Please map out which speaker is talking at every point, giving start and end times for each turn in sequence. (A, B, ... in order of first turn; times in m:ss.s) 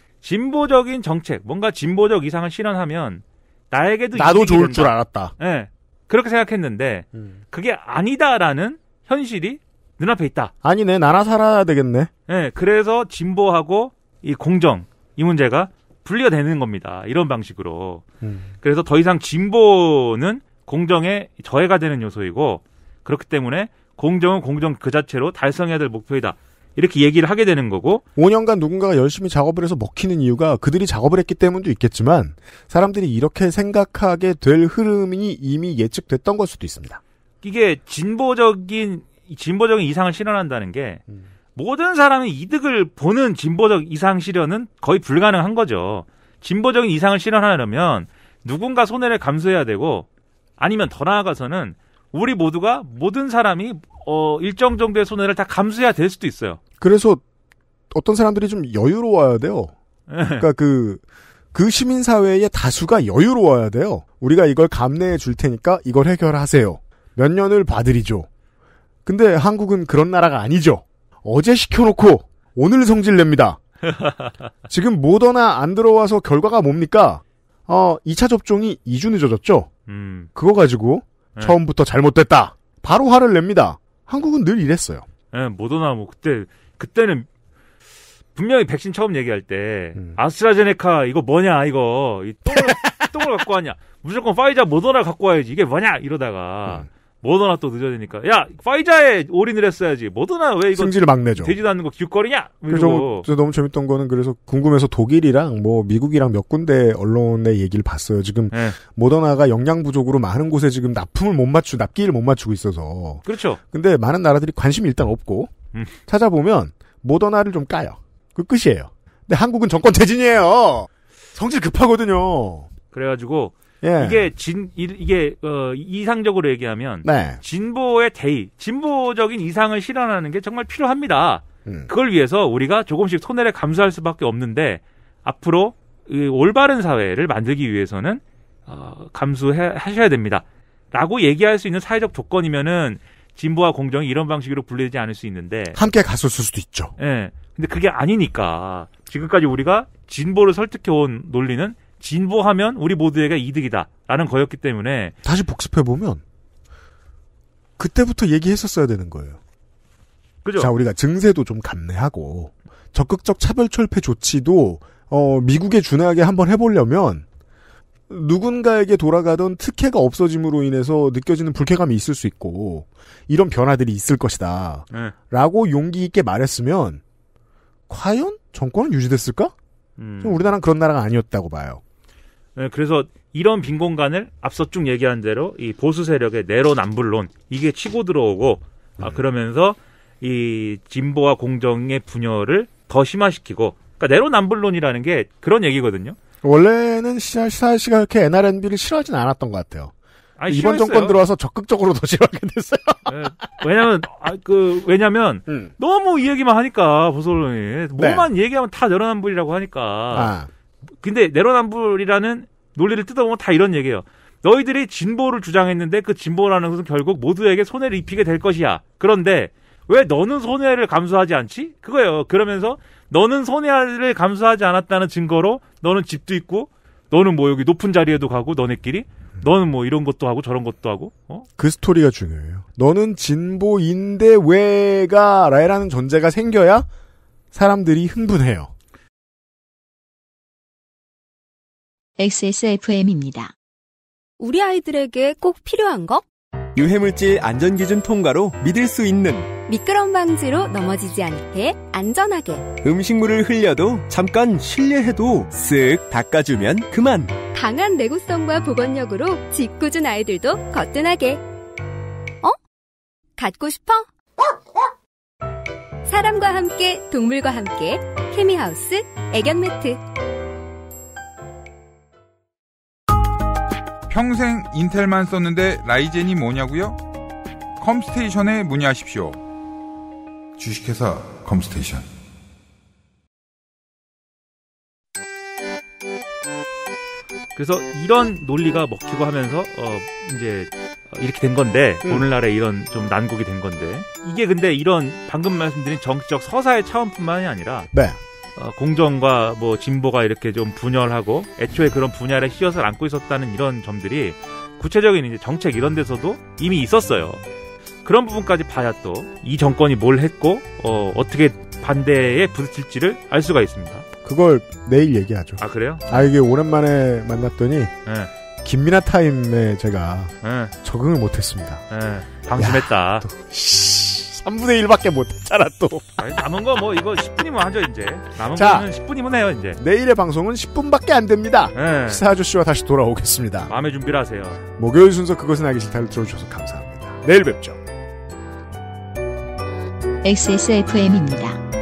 0:00.2-0:10.5 A
0:04.1-0:05.3 B
0:10.6-0:12.1 B
0:12.3-0:18.0 A
0:18.2-0:18.5 B
0:18.6-0:28.0 A
0:28.2-0:37.0 B
0:37.4-0:41.0 A
0:41.6-0:50.0 A
0:50.6-0:56.6 A
0:56.8-0:57.2 B
0:57.9-0:59.7 B
1:00.1-1:00.5 A
1:00.3-1:01.0 B
1:01.5-1:08.3 B
1:09.0-1:13.6 B
1:13.8-1:14.3 A
1:14.7-1:19.7 B
1:19.9-1:20.3 A
1:20.3-1:25.0 B
1:25.3-1:27.3 A
1:28.3-1:43.3 A
1:32.4-1:33.2 B
1:40.7-1:41.6 B
1:42.7-1:55.5 B
1:48.5-1:48.8 A
1:53.2-1:53.6 A
1:56.1-2:02.7 B
2:02.9-2:25.8 A
2:03.8-2:04.3 B
2:07.0-2:07.4 B
2:11.6-2:11.9 B
2:25.7-2:26.9 B
2:27.0-2:35.1 A
2:35.2-2:36.2 B
2:37.8-2:39.4 B
2:40.4-2:40.7 A
2:40.6-2:47.2 B
2:48.1-2:57.0 B
2:57.9-2:59.5 B
3:00.0-3:00.5 A
3:00.2-3:01.8 B
3:02.6-3:16.2 A
3:16.4-3:19.9 B
3:20.4-3:21.2 A
3:20.5-3:23.2 B
3:23.1-3:30.3 A
3:28.0-3:28.3 B
3:30.1-3:30.5 B
3:31.0-3:51.5 A
3:51.6-3:56.9 B
3:57.5-3:58.7 B
4:02.2-4:03.5 C
4:04.4-4:06.2 D
4:06.7-4:09.5 E
4:09.7-4:12.8 D
4:12.8-4:17.4 E
4:17.5-4:21.4 D
4:23.4-4:24.1 D
4:26.0-4:30.0 D
4:34.1-4:37.0 F
4:37.8-4:39.4 F
4:40.6-4:42.0 F
4:47.5-4:57.9 A
4:57.9-4:58.2 B
4:58.6-5:07.4 A
5:08.0-5:14.0 A
5:14.2-5:17.9 B
5:15.6-5:16.2 A
5:18.0-5:18.3 A
5:18.6-5:21.8 B
5:20.4-5:20.7 A
5:21.9-5:23.2 A
5:22.6-5:26.2 B
5:26.2-5:29.8 A
5:28.5-5:28.9 B
5:29.8-5:33.7 B
5:31.7-5:32.2 A
5:33.7-5:34.6 A
5:34.8-5:37.8 B
5:40.2-5:41.6 C